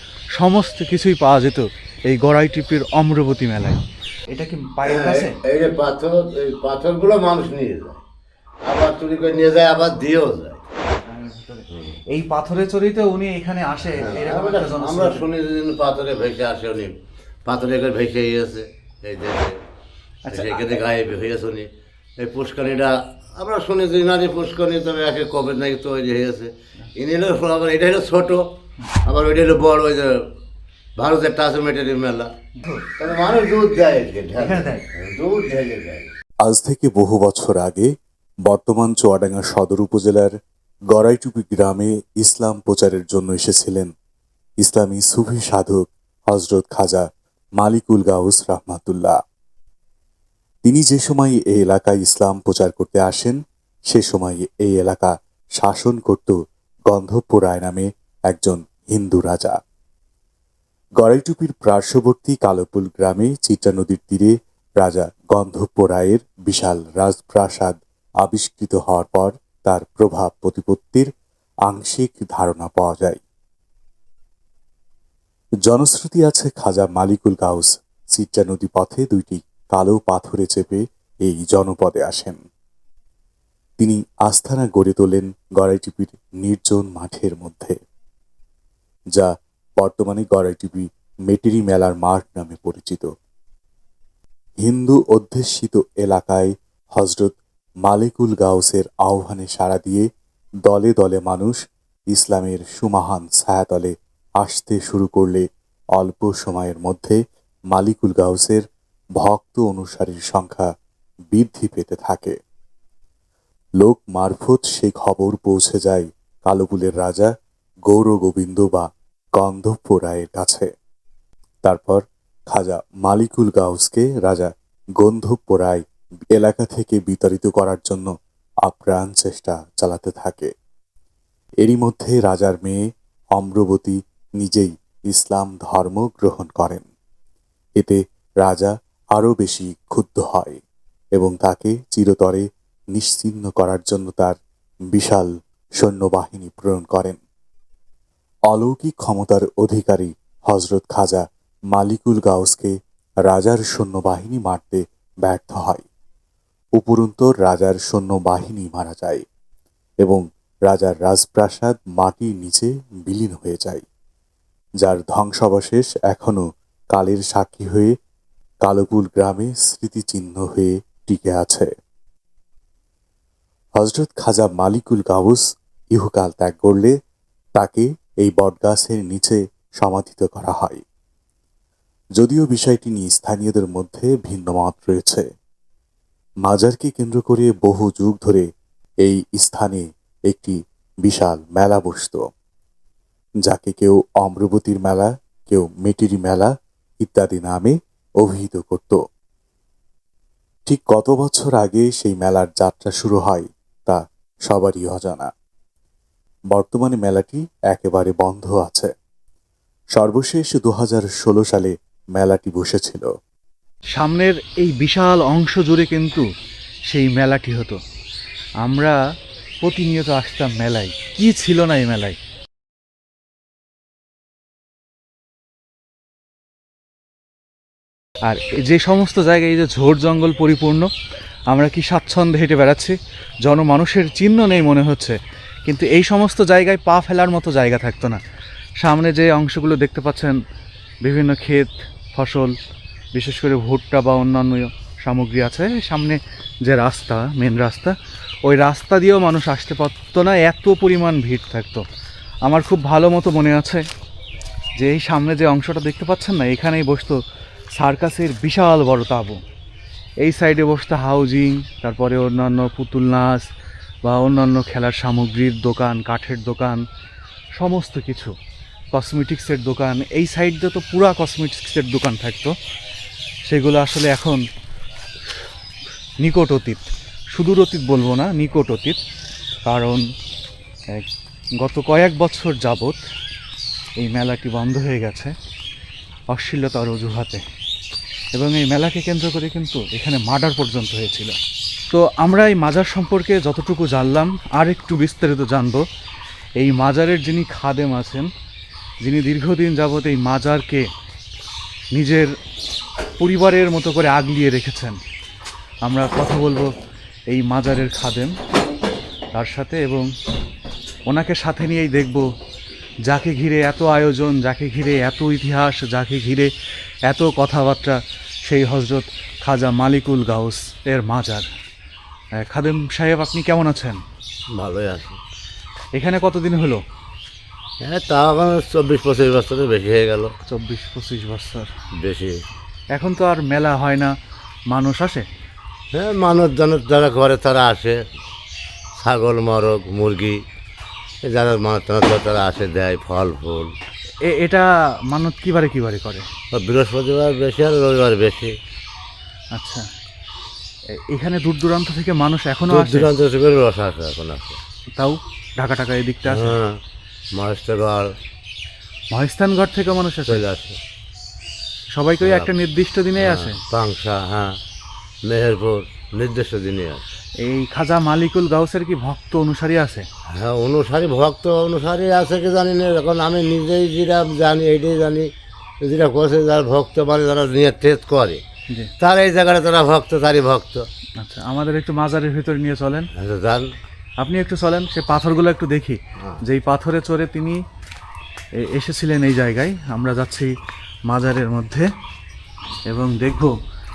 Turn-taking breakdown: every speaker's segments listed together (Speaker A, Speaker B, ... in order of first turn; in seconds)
Speaker A: 0.4-3.8, 4.3-5.4, 11.0-15.2, 20.3-20.8, 32.6-32.9, 34.4-34.9, 213.9-216.3, 216.9-217.8, 218.6-219.0, 219.6-222.2, 228.2-230.9, 231.5-238.2, 238.8-240.4, 241.0-242.6, 243.1-251.8, 252.4-253.9, 254.8-257.2, 257.8-259.4, 260.2-263.5, 264.1-266.8, 267.6-268.4, 268.9-272.5, 273.5-274.4, 276.2-279.0, 279.7-280.0, 281.6-283.0, 284.0-285.3, 286.3-287.4, 288.3-291.4, 291.9-295.8, 296.6-298.3, 299.0-300.9, 301.9-302.3, 303.2-305.0, 305.9-306.7, 307.3-308.4, 309.3-310.1, 311.1-312.3, 313.1-316.5, 317.1-321.5, 322.4-324.0, 325.9-326.8, 330.5-331.7, 332.9-334.1, 334.7-335.3, 344.2-346.3, 349.5-349.9, 350.9-353.1, 354.9-356.6, 359.1-360.4, 361.9-363.6, 367.4-370.1, 381.2-383.1, 384.2-387.6, 388.6-390.5, 391.1-391.9, 392.9-393.6
Speaker B: 4.9-8.0, 8.7-10.6, 11.7-12.0, 13.9-19.6, 20.3-21.7, 22.2-28.4, 29.1-30.2, 31.0-32.3, 33.0-36.1, 324.6-325.2, 327.8-330.3, 332.0-332.4, 335.9-338.0, 339.0-340.4, 341.3-343.7, 346.5-348.5, 352.7-354.6, 356.3-356.8, 357.4-358.1, 360.3-360.8, 362.2-362.5, 363.2-364.6, 365.2-367.0, 370.3-375.3, 375.8-378.4, 379.0-380.9, 383.1-383.7
Speaker C: 36.4-37.9, 38.5-40.3, 40.9-43.9, 44.6-47.1, 47.6-49.2, 50.6-53.4, 53.9-56.4, 56.9-59.6, 61.0-71.1, 71.7-73.2, 75.7-82.4, 83.8-87.8, 89.2-93.1, 94.6-100.1, 100.7-101.6, 102.1-105.5, 106.0-107.2, 107.7-108.7, 109.2-110.7, 111.3-112.3, 113.8-117.3, 117.9-120.7, 121.7-125.8, 126.3-128.1, 128.7-130.5, 131.6-132.8, 133.4-136.9, 137.8-140.6, 141.2-144.4, 144.9-147.2, 148.5-152.7, 153.2-155.8, 156.8-159.2, 160.0-163.8, 164.8-167.9, 168.7-171.7, 173.8-175.4, 175.9-176.9, 177.6-180.8, 182.2-185.2, 186.4-188.5, 189.1-192.2, 193.4-199.0, 200.7-205.3, 206.5-208.9, 210.0-213.1